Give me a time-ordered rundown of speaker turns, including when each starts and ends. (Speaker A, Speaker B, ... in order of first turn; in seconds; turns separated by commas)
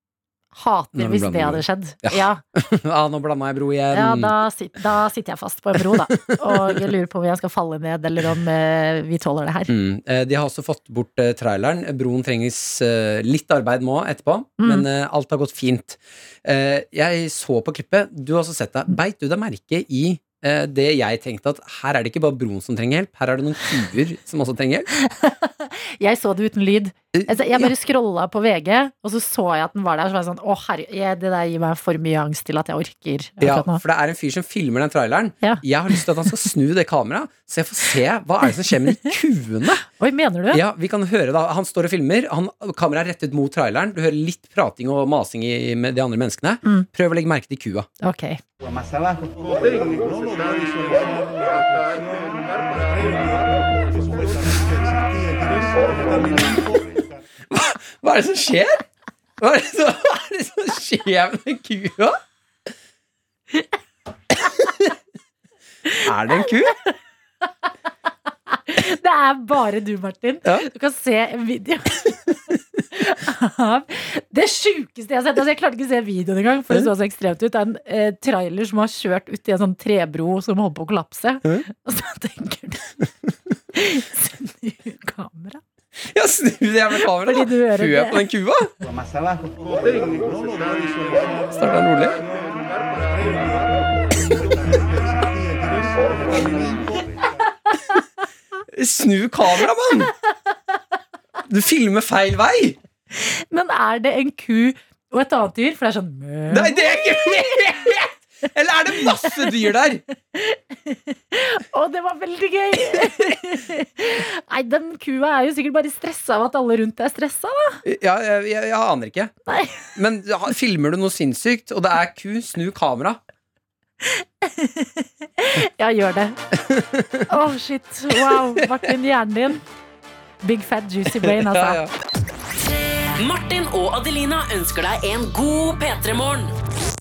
Speaker A: 0.5-2.4, Speaker B: 0.9-4.3, Speaker A: 3.9-9.7, Speaker B: 5.8-6.9, Speaker B: 9.7-24.9, Speaker A: 14.6-14.8, Speaker A: 24.9-33.8, Speaker B: 27.1-27.7, Speaker B: 33.4-39.8, Speaker A: 39.8-40.6, Speaker B: 40.5-47.9, Speaker A: 48.0-48.4, Speaker B: 55.7-58.8, Speaker B: 59.4-62.2, Speaker B: 66.0-66.7, Speaker A: 68.5-82.9, Speaker A: 83.7-85.6, Speaker B: 86.0-88.7, Speaker A: 87.0-88.2, Speaker B: 91.5-92.2, Speaker B: 94.3-94.6, Speaker B: 96.5-96.8, Speaker B: 98.7-100.1, Speaker B: 101.5-102.8, Speaker A: 103.1-106.8, Speaker B: 106.5-110.0, Speaker A: 110.3-117.8, Speaker B: 112.9-113.3, Speaker B: 117.8-119.3, Speaker A: 119.5-119.9, Speaker B: 119.9-123.2, Speaker A: 124.0-126.4, Speaker B: 126.5-127.3, Speaker A: 127.3-129.6, Speaker B: 128.3-128.9, Speaker A: 130.4-131.8, Speaker B: 131.1-131.9, Speaker C: 133.2-136.5